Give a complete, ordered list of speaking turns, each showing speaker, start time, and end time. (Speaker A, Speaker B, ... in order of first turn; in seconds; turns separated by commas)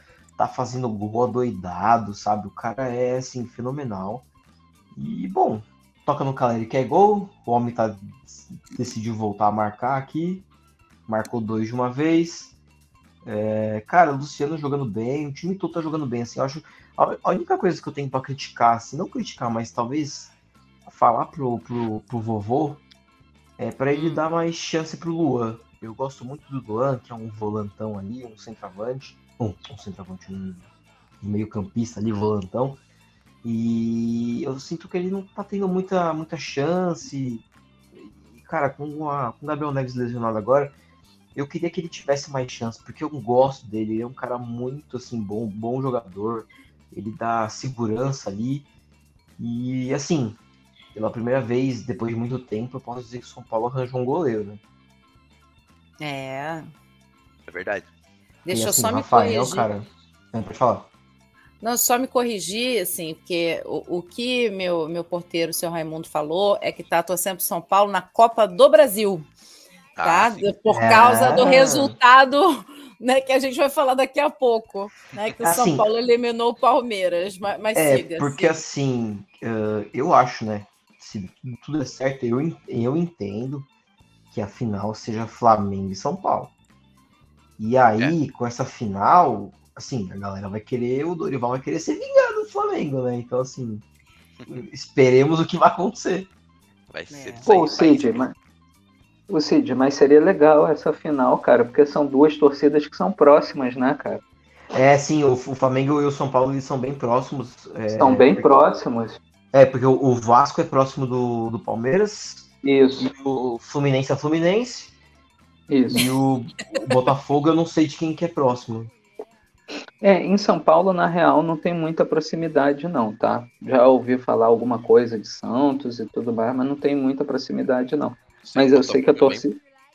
Speaker A: 0.4-4.2, Speaker A: 4.9-10.4, Speaker A: 11.1-12.5, Speaker A: 13.2-20.3, Speaker A: 20.8-22.8, Speaker A: 23.6-30.7, Speaker B: 23.9-24.2, Speaker A: 31.2-32.8, Speaker A: 33.4-40.7, Speaker A: 41.3-48.7, Speaker A: 49.4-50.4, Speaker A: 50.9-54.6, Speaker B: 56.0-56.6, Speaker C: 57.5-57.9, Speaker B: 58.4-59.7, Speaker A: 58.5-60.9, Speaker B: 61.6-69.3, Speaker C: 70.0-70.5, Speaker B: 70.0-78.6, Speaker A: 70.7-71.9, Speaker A: 75.4-75.8, Speaker A: 77.7-83.7, Speaker A: 84.3-86.5, Speaker A: 87.6-93.8, Speaker A: 94.5-96.3, Speaker C: 96.9-98.2, Speaker B: 97.1-97.5, Speaker D: 97.5-98.3, Speaker D: 99.3-104.2, Speaker A: 104.7-108.5, Speaker D: 107.9-109.2, Speaker A: 109.5-114.9, Speaker D: 112.6-113.1, Speaker D: 115.7-116.0, Speaker A: 115.9-118.9, Speaker D: 120.0-129.6, Speaker C: 128.4-129.4